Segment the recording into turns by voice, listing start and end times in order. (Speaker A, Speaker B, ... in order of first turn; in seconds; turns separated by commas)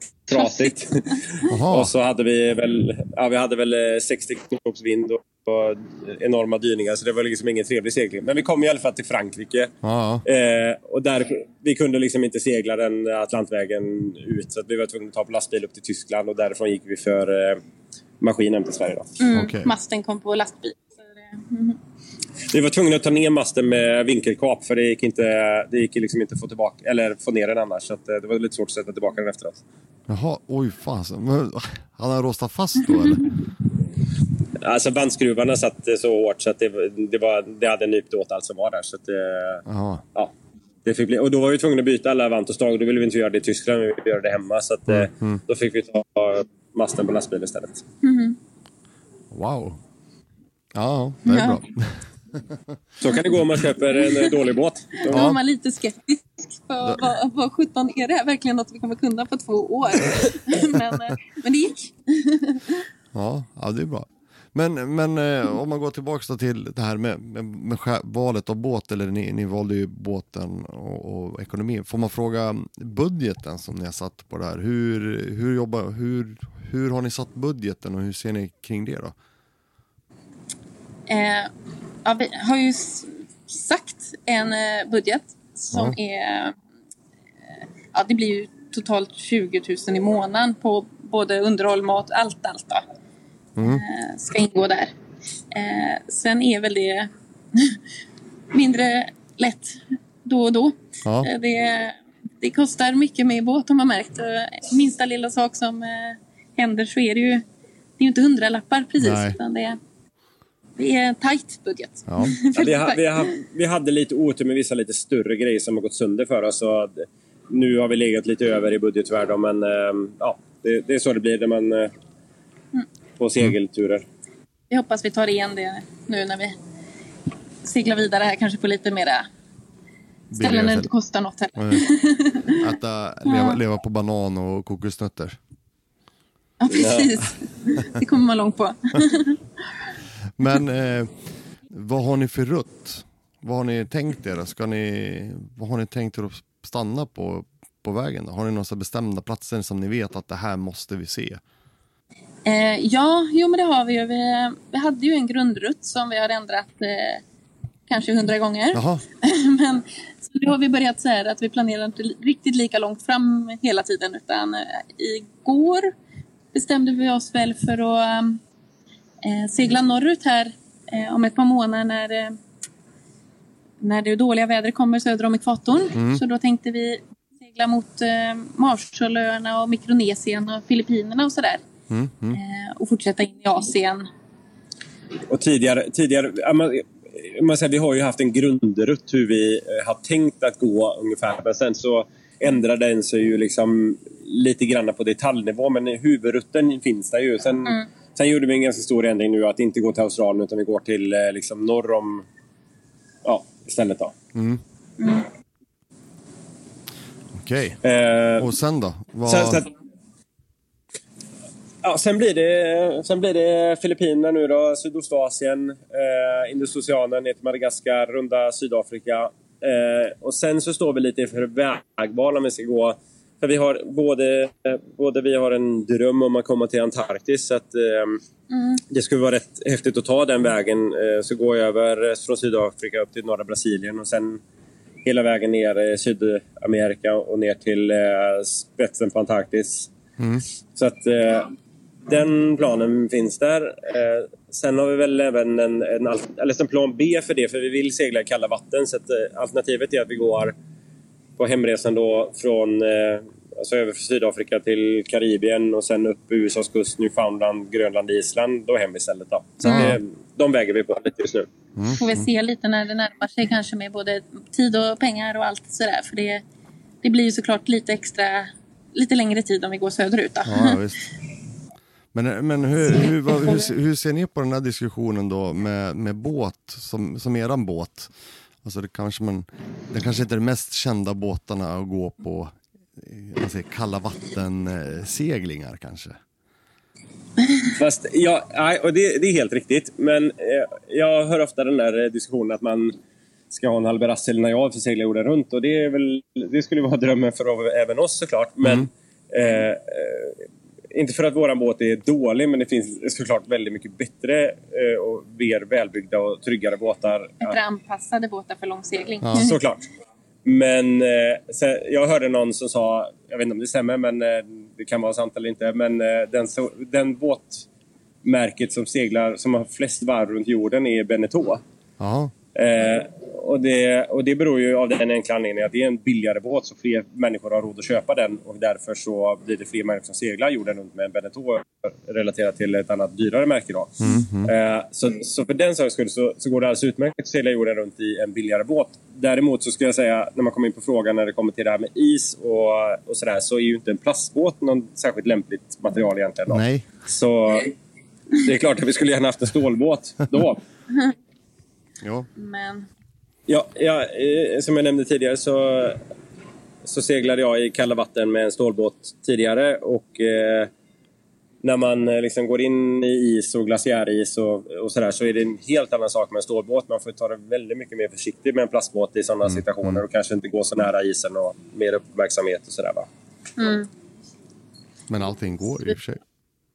Speaker A: 0.3-9.7, Speaker B: 1.5-1.9, Speaker B: 9.8-10.2, Speaker A: 10.2-17.6, Speaker A: 18.2-19.1, Speaker C: 19.2-21.8, Speaker B: 19.3-19.7, Speaker A: 22.5-29.6, Speaker B: 30.1-33.3, Speaker A: 34.6-40.3, Speaker B: 39.6-40.0, Speaker A: 40.8-47.8, Speaker B: 44.9-45.4, Speaker C: 48.0-48.4, Speaker B: 49.3-49.8, Speaker B: 50.7-52.8, Speaker C: 51.2-51.6, Speaker A: 53.0-55.2, Speaker C: 55.0-62.8, Speaker B: 55.1-55.4, Speaker B: 63.1-79.1, Speaker C: 81.1-81.5, Speaker C: 82.0-86.5, Speaker C: 87.9-92.8, Speaker B: 93.6-93.8, Speaker C: 93.6-94.9, Speaker C: 95.5-97.8, Speaker C: 98.5-107.4, Speaker B: 101.0-101.3, Speaker C: 108.0-109.8, Speaker B: 109.0-109.4, Speaker C: 110.8-113.2, Speaker B: 112.1-112.3, Speaker A: 112.5-121.9, Speaker A: 123.2-124.0, Speaker C: 124.7-126.5, Speaker C: 127.6-129.3, Speaker B: 130.3-130.9, Speaker C: 130.4-132.7, Speaker B: 131.6-131.8, Speaker B: 132.5-135.4, Speaker C: 133.2-133.6, Speaker C: 136.6-139.4, Speaker A: 136.7-137.2, Speaker B: 140.3-141.1, Speaker B: 141.7-151.4, Speaker C: 152.4-157.2, Speaker C: 157.9-165.9, Speaker B: 158.7-159.0, Speaker C: 166.5-168.4, Speaker C: 169.2-172.4, Speaker C: 173.8-181.6, Speaker B: 175.9-176.2, Speaker B: 181.9-182.4, Speaker C: 182.3-184.1, Speaker A: 185.3-202.3, Speaker A: 203.2-204.1, Speaker B: 204.3-204.6, Speaker C: 205.0-205.3, Speaker B: 207.3-207.8, Speaker A: 207.8-208.5, Speaker B: 208.4-209.6, Speaker A: 209.2-209.7, Speaker A: 211.8-228.2, Speaker C: 228.5-228.8, Speaker A: 228.9-234.4, Speaker A: 235.0-239.9, Speaker B: 240.2-240.4, Speaker A: 240.7-241.5, Speaker A: 242.1-250.5, Speaker A: 251.4-261.5, Speaker C: 259.6-259.9, Speaker B: 259.6-260.0, Speaker B: 261.8-262.2, Speaker C: 261.9-266.4, Speaker C: 267.0-270.8, Speaker B: 270.4-271.0, Speaker B: 272.1-278.1, Speaker B: 278.6-286.2, Speaker A: 287.6-292.9, Speaker A: 293.5-307.6, Speaker B: 298.6-298.9, Speaker C: 307.4-309.6, Speaker A: 309.4-309.9, Speaker A: 310.4-317.6, Speaker A: 318.2-321.6, Speaker B: 322.0-322.3, Speaker A: 322.5-347.7, Speaker B: 334.0-334.5, Speaker B: 346.5-346.9, Speaker A: 348.3-350.6, Speaker B: 352.0-352.3, Speaker C: 352.4-352.9, Speaker A: 353.5-356.0, Speaker A: 356.8-360.7, Speaker A: 361.6-373.1, Speaker B: 369.4-370.0, Speaker C: 373.6-373.9, Speaker B: 375.1-376.2